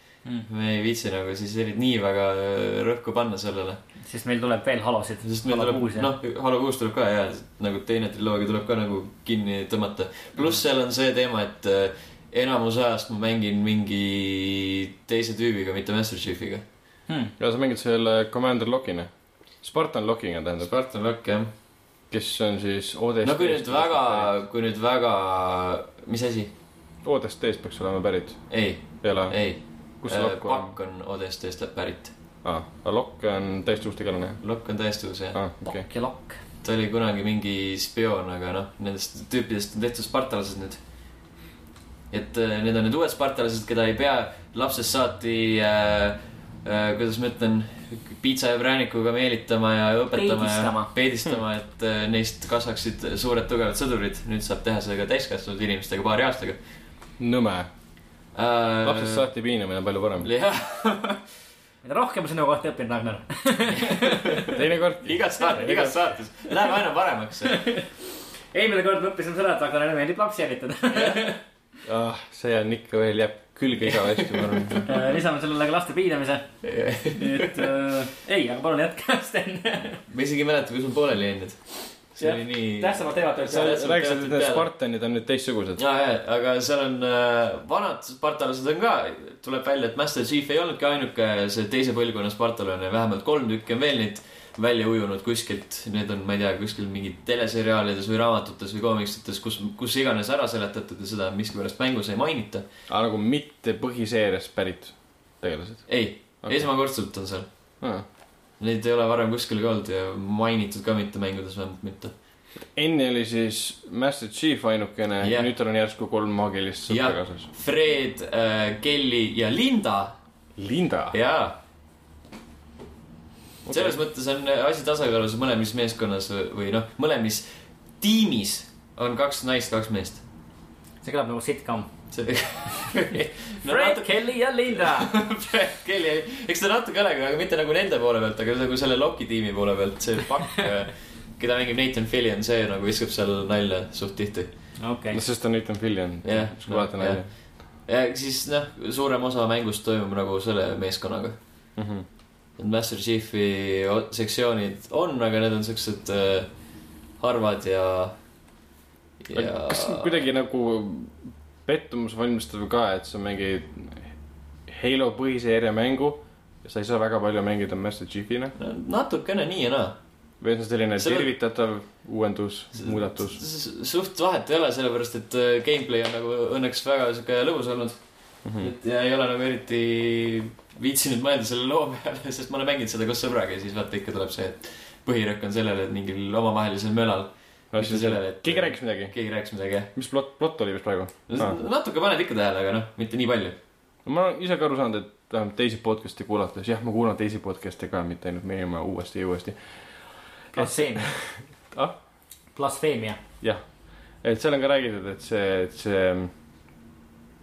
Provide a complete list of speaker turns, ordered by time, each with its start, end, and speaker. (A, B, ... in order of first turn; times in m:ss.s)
0:00.4-0:03.8 A
0:04.0-0:06.1 B
0:05.2-0:16.6 A
0:17.1-0:17.3 B
0:17.4-0:19.1 C
0:19.6-0:20.8 C
0:20.7-0:21.5 A
0:22.1-0:24.3 C
0:23.2-0:26.5 A
0:27.0-0:28.4 C
0:28.5-0:32.1 A
0:29.0-0:29.4 C
0:30.0-0:30.7 C
0:32.4-0:34.4 C
0:34.4-0:35.4 A
0:35.3-0:35.9 C
0:35.6-0:36.4 B
0:36.6-0:40.8 A
0:42.1-0:56.6 A
0:50.1-0:50.9 B
0:57.2-0:57.7 C
0:58.3-0:59.2 A
0:58.8-1:00.3 C
1:00.2-1:01.2 A
1:01.8-1:04.6 B
1:03.7-1:07.6 A
1:04.5-1:06.0 C
1:07.4-1:07.9 B
1:08.5-1:11.4 B
1:11.0-1:11.2 A
1:11.8-1:14.9 C
1:13.9-1:14.9 A
1:14.8-1:16.4 B
1:16.6-1:17.7 A
1:17.1-1:20.0 B
1:20.1-1:24.6 A
1:22.2-1:23.9 B
1:23.4-1:25.8 C
1:25.8-1:42.6 A
1:42.9-1:45.9 C
1:45.9-1:47.5 A
1:46.4-1:46.7 C
1:48.6-1:52.1 A
1:52.8-1:57.5 C
1:55.2-1:55.5 A
1:56.9-2:00.2 A
2:00.6-2:01.2 C
2:01.1-2:01.6 A
2:03.6-2:04.0 C
2:03.7-2:07.5 A
2:08.0-2:10.2 A
2:11.0-2:11.9 B
2:12.1-2:24.5 A
2:13.6-2:15.1 B
2:24.8-2:25.2 B
2:25.1-2:27.2 C
2:26.2-2:31.4 A
2:31.8-2:32.0 C
2:32.6-2:36.5 A
2:37.2-2:38.2 A
2:39.2-2:40.2 A
2:39.3-2:44.1 C
2:44.7-2:48.5 C
2:48.6-2:50.0 A
2:50.4-2:53.4 C
2:51.0-2:51.3 A
2:52.7-2:58.0 A
2:58.4-2:58.7 C
2:58.6-3:09.9 A
3:07.7-3:09.1 C
3:09.9-3:11.6 C
3:11.3-3:13.6 A
3:14.0-3:19.6 C
3:20.5-3:21.1 B
3:20.5-3:22.0 C
3:22.6-3:23.2 B
3:24.2-3:26.3 C